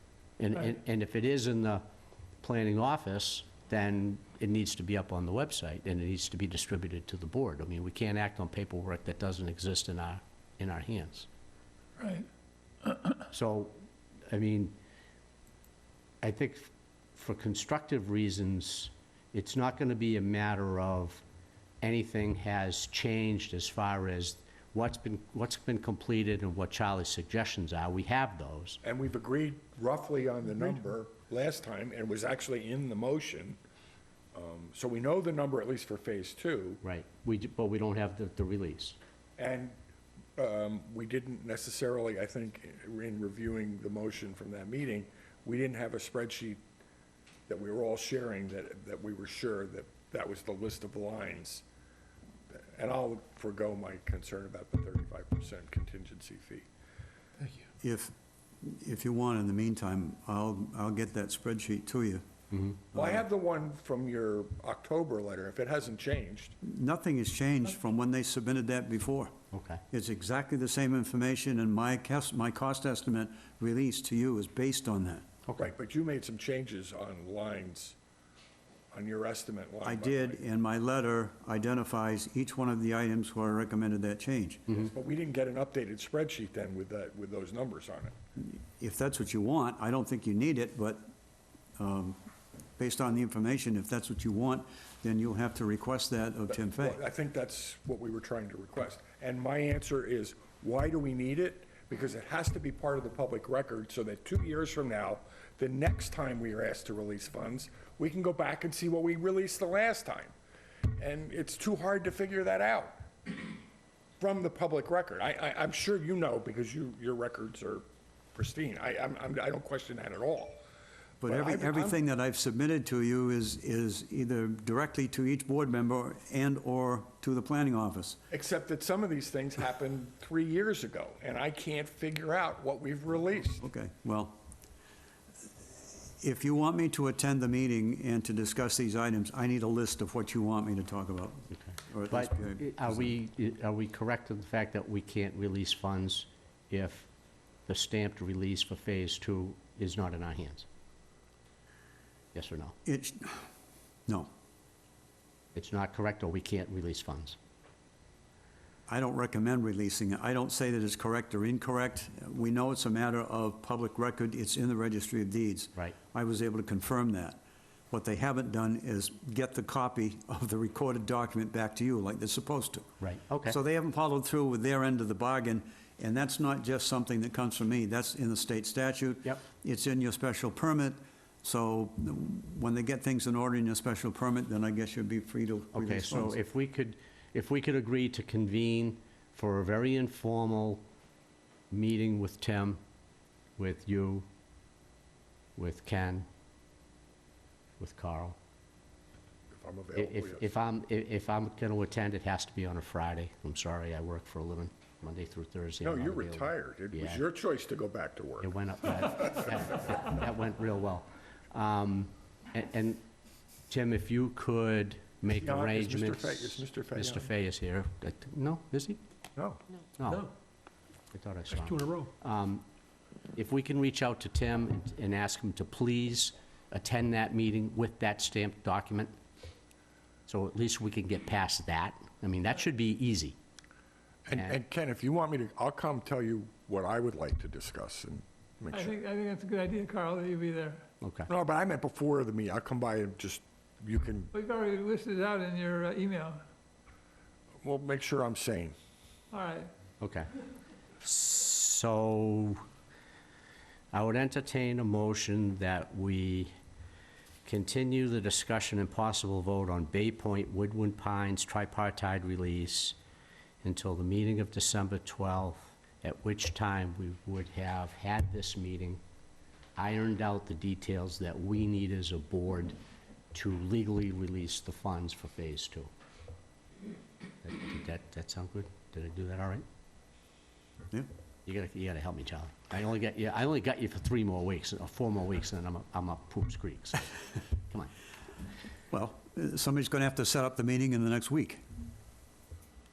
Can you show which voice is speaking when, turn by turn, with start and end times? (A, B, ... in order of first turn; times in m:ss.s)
0:00.4-0:01.8 A
0:02.4-0:11.3 A
0:12.0-0:12.3 B
0:12.8-0:13.1 B
0:13.3-0:13.8 A
0:14.3-0:14.7 A
0:16.2-0:21.2 A
0:21.8-0:28.8 A
0:28.8-0:33.6 C
0:34.3-0:36.8 C
0:36.8-0:39.0 A
0:39.4-0:39.8 C
0:40.4-0:46.6 C
0:47.5-0:51.6 C
0:52.6-0:56.6 C
0:57.8-1:02.2 D
1:02.5-1:02.8 A
1:02.9-1:03.2 D
1:02.9-1:06.5 C
1:06.6-1:09.3 D
1:09.5-1:09.8 A
1:09.9-1:15.3 D
1:15.5-1:18.0 C
1:18.9-1:20.4 C
1:19.8-1:24.6 D
1:24.7-1:28.1 C
1:28.4-1:31.0 D
1:31.8-1:32.2 D
1:32.8-1:37.0 D
1:36.6-1:50.3 C
1:51.0-1:53.5 C
1:54.2-2:00.6 C
2:01.2-2:02.0 C
2:01.2-2:08.2 D
2:08.3-2:13.6 C
2:13.6-2:14.4 D
2:16.0-2:23.1 D
2:21.5-2:27.1 A
2:27.7-2:30.7 A
2:32.3-2:32.7 A
2:32.8-2:33.5 D
2:35.5-2:37.4 A
2:38.9-2:47.4 D
2:47.9-2:52.9 D
2:53.0-2:53.6 A
2:53.4-3:06.4 D
3:05.7-3:10.8 A
3:11.7-3:12.8 A
3:13.6-3:14.3 A
3:15.6-3:16.3 A
3:17.8-3:18.4 A
3:19.5-3:20.4 C
3:20.0-3:27.2 A
3:25.8-3:28.6 C
3:28.4-3:33.0 A
3:33.7-3:39.0 A
3:35.3-3:37.3 C
3:39.4-3:39.6 C
3:40.0-3:40.3 A
3:41.1-3:42.6 A
3:43.3-3:49.1 A
3:50.3-3:53.4 A
3:54.3-3:58.9 C
3:58.7-4:00.8 B
4:01.0-4:01.3 A
4:01.3-4:04.3 C
4:04.3-4:06.4 B
4:07.6-4:08.7 C
4:09.3-4:09.7 B
4:10.0-4:10.3 A
4:11.0-4:12.6 A
4:13.9-4:16.5 A
4:17.4-4:23.0 A
4:23.6-4:29.0 A
4:29.8-4:32.8 A
4:33.3-4:35.9 A
4:37.4-4:39.6 A
4:41.4-4:47.1 A
4:48.9-4:51.6 D